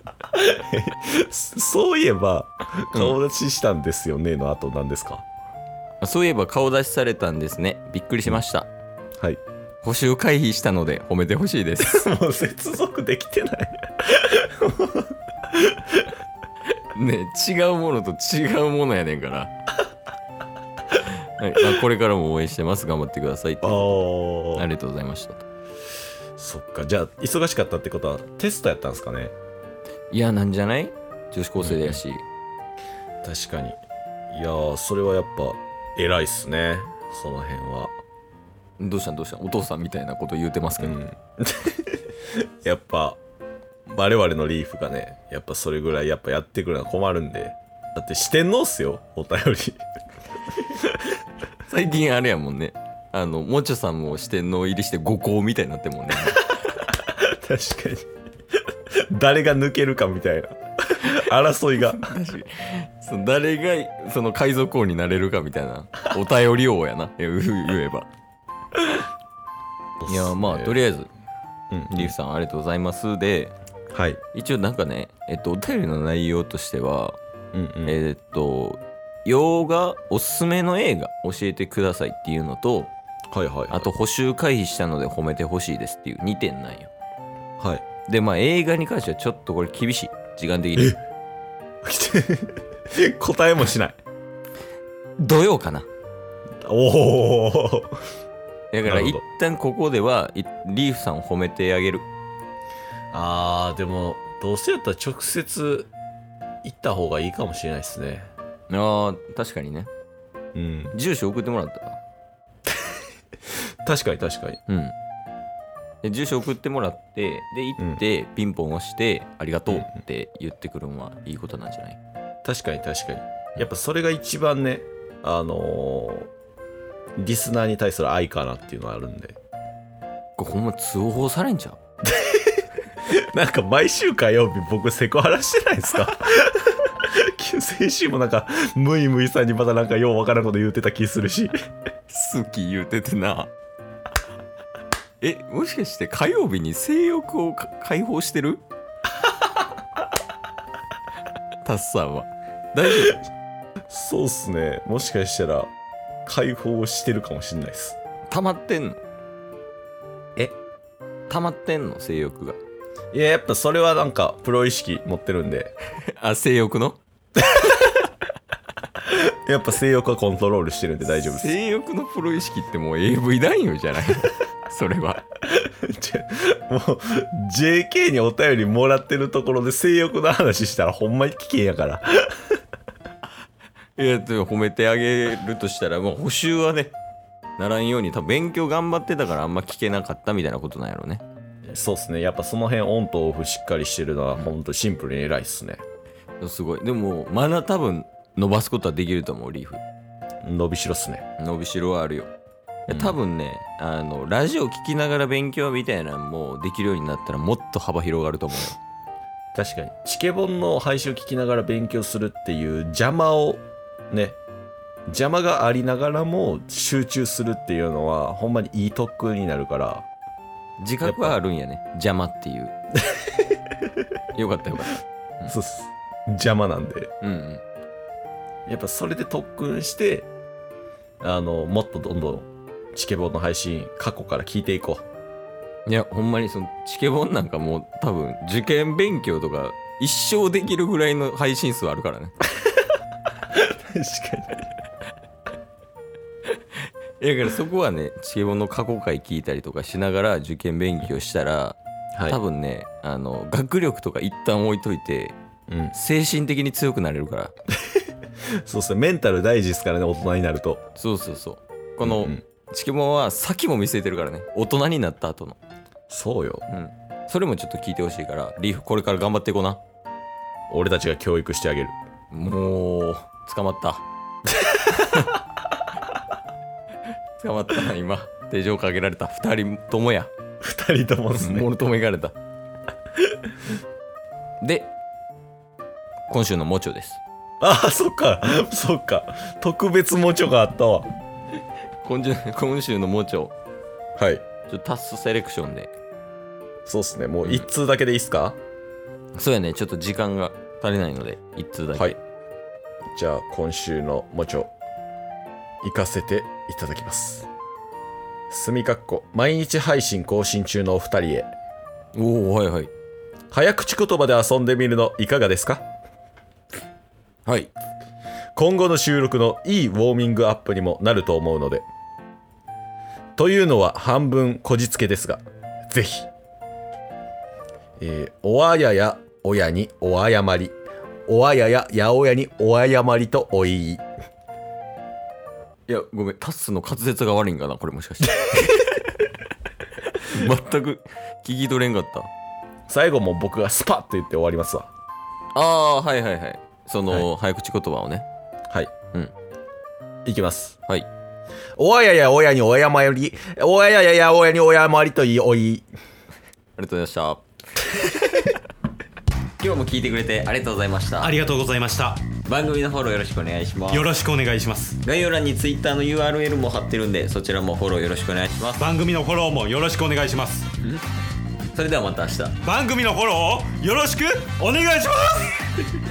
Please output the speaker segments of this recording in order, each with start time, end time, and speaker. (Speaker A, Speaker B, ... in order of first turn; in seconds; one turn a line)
Speaker A: 0.3-5.2
Speaker B: 6.0-8.7
Speaker B: 9.8-12.1
Speaker A: 11.8-16.1
Speaker B: 16.9-19.5
Speaker B: 20.9-24.0
Speaker A: 23.6-24.6
Speaker B: 24.5-25.4
Speaker A: 26.4-29.3
Speaker B: 30.1-32.2
Speaker A: 31.6-32.0
Speaker A: 33.2-33.8
Speaker A: 34.3-37.9
Speaker B: 38.8-41.0
Speaker A: 40.8-42.0
Speaker A: 42.6-43.2
Speaker A: 43.9-49.8
Speaker B: 51.7-56.4
Speaker A: 56.9-58.1
Speaker A: 59.1-62.1
Speaker B: 61.8-68.1
Speaker A: 70.0-70.8
Speaker B: 70.1-71.1
Speaker A: 71.7-72.1
Speaker B: 71.9-73.5
Speaker A: 73.9-74.2
Speaker B: 74.3-77.2
Speaker A: 77.5-78.0
Speaker B: 77.9-82.9
Speaker A: 83.3-83.9
Speaker B: 83.7-86.9
Speaker A: 87.6-87.8
Speaker B: 88.1-91.0
Speaker A: 91.8-94.0
Speaker B: 95.2-95.9
Speaker A: 96.7-97.9
Speaker B: 98.7-102.1
Speaker A: 98.9-99.2
Speaker A: 103.1-105.9
Speaker A: 106.6-108.3
Speaker B: 108.7-109.9
Speaker A: 110.5-111.0
Speaker B: 110.9-112.0
Speaker A: 113.8-114.6
Speaker B: 114.7-115.0
Speaker B: 116.0-122.0
Speaker A: 122.4-126.3
Speaker A: 127.2-129.4
Speaker B: 130.4-131.8
Speaker A: 132.1-141.5
Speaker B: 142.1-143.5
Speaker B: 145.2-148.6
Speaker B: 151.6-153.2
Speaker A: 153.9-155.7
Speaker A: 156.3-158.0
Speaker B: 158.3-159.0
Speaker B: 161.3-162.6
Speaker A: 163.1-165.7
Speaker B: 166.2-167.0
Speaker A: 167.4-167.9
Speaker A: 169.0-171.6
Speaker B: 171.1-175.2
Speaker A: 175.5-182.5
Speaker B: 184.0-186.9
Speaker B: 187.6-191.2
Speaker A: 191.7-195.8
Speaker B: 196.4-199.8
Speaker A: 200.4-201.2
Speaker B: 201.4-202.3
Speaker B: 202.9-208.8
Speaker A: 202.9-203.2
Speaker A: 209.5-214.4
Speaker A: 215.1-220.1
Speaker B: 220.8-222.7
Speaker A: 221.0-221.4
Speaker A: 223.1-223.7
Speaker B: 224.4-225.6
Speaker A: 225.5-227.1
Speaker B: 227.2-227.6
Speaker A: 228.7-230.3
Speaker A: 231.2-235.1
Speaker B: 235.9-242.3
Speaker A: 243.6-244.7
Speaker B: 247.2-255.4
Speaker A: 255.7-255.9
Speaker B: 255.9-257.5
Speaker A: 258.6-260.8
Speaker B: 261.0-265.6
Speaker A: 262.0-262.4
Speaker A: 266.1-266.6
Speaker B: 266.7-269.8
Speaker A: 270.7-271.9
Speaker B: 272.3-274.0
Speaker A: 274.6-275.3
Speaker B: 275.0-275.3
Speaker B: 277.4-280.3
Speaker A: 280.6-281.7
Speaker B: 281.3-282.4
Speaker B: 284.6-284.9
Speaker B: 286.3-287.2
Speaker A: 287.6-291.1
Speaker B: 292.0-293.5
Speaker A: 294.2-294.4
Speaker B: 294.7-295.9
Speaker A: 296.9-298.6
Speaker B: 299.4-302.2
Speaker A: 303.1-304.7
Speaker A: 305.8-307.5
Speaker A: 308.5-311.5
Speaker B: 312.1-312.9
Speaker A: 313.5-315.9
Speaker B: 317.4-317.7
Speaker A: 318.6-321.9
Speaker A: 323.4-326.3
Speaker A: 328.0-334.1
Speaker B: 335.9-339.2
Speaker B: 340.1-342.3
Speaker A: 342.9-344.9
Speaker B: 345.6-348.3
Speaker A: 350.2-350.8
Speaker A: 351.8-355.9
Speaker B: 356.8-358.6
Speaker B: 359.6-361.4
Speaker C: 361.2-362.3
Speaker B: 362.4-364.1
Speaker C: 363.9-365.0
Speaker B: 365.0-368.9
Speaker C: 368.8-370.7
Speaker B: 371.7-372.6
Speaker C: 372.6-375.7